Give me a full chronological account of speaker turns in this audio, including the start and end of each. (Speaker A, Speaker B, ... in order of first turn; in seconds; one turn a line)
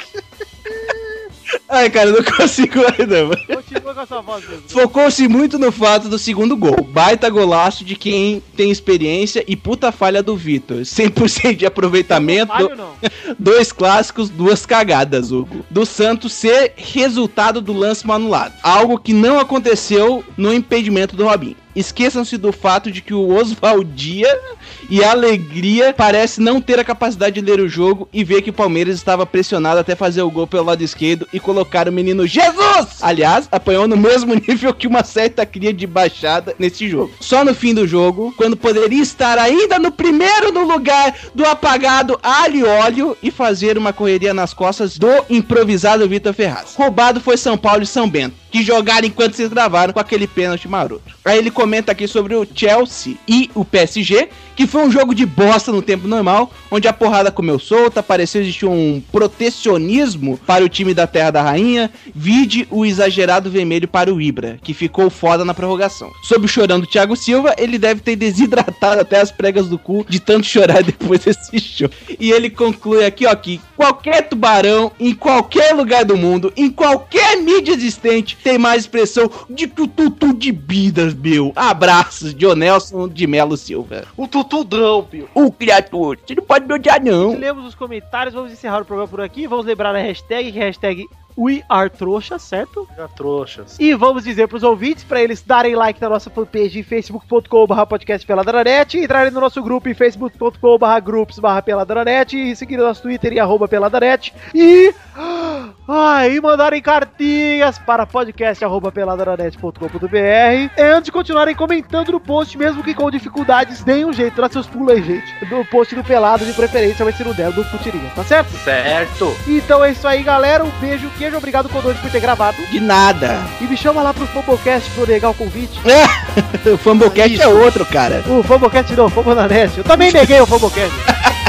Speaker A: 1.7-3.5
Speaker B: 3.5-4.9
Speaker A: 4.7-84.1
Speaker B: 12.1-13.0
Speaker C: 84.2-85.3
Speaker A: 85.3-87.4
Speaker B: 87.2-92.9
Speaker C: 92.9-93.8
Speaker B: 93.8-118.6
Speaker C: 118.5-119.4
Speaker B: 119.4-122.7
Speaker A: 122.7-123.5
Speaker B: 123.6-125.8
Speaker A: 125.8-128.3
Speaker C: 127.0-127.7
Speaker B: 128.2-131.1